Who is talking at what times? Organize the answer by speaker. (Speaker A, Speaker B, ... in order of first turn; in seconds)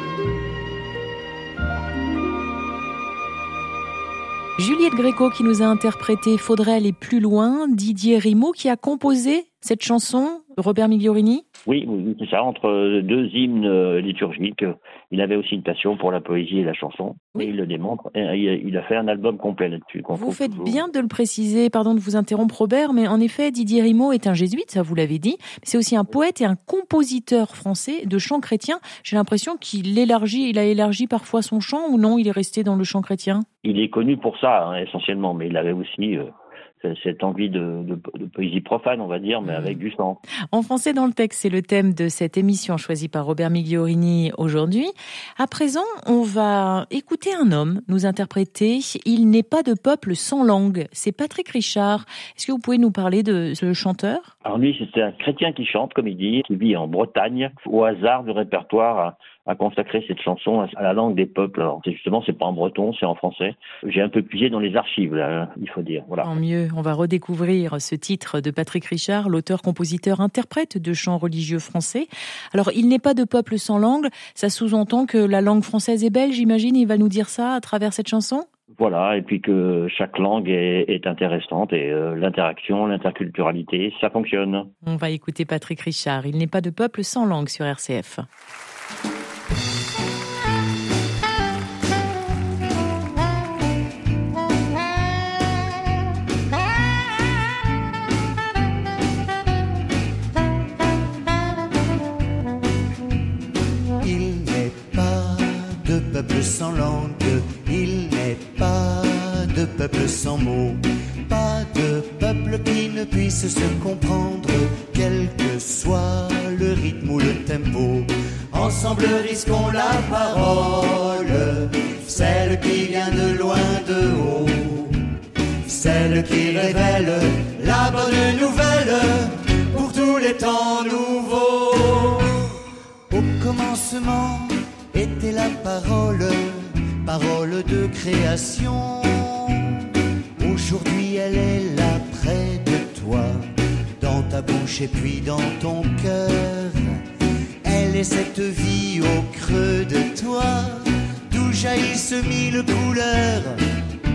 Speaker A: 4.6-11.4, 20.1-33.5, 39.5-39.8, 40.5-54.3, 66.2-78.5, 84.8-88.2
Speaker B: 11.7-20.8, 33.6-36.3, 36.8-40.2, 54.4-66.3, 78.8-84.7
Speaker C: 104.0-125.0, 125.7-132.5, 133.1-147.0, 147.6-153.6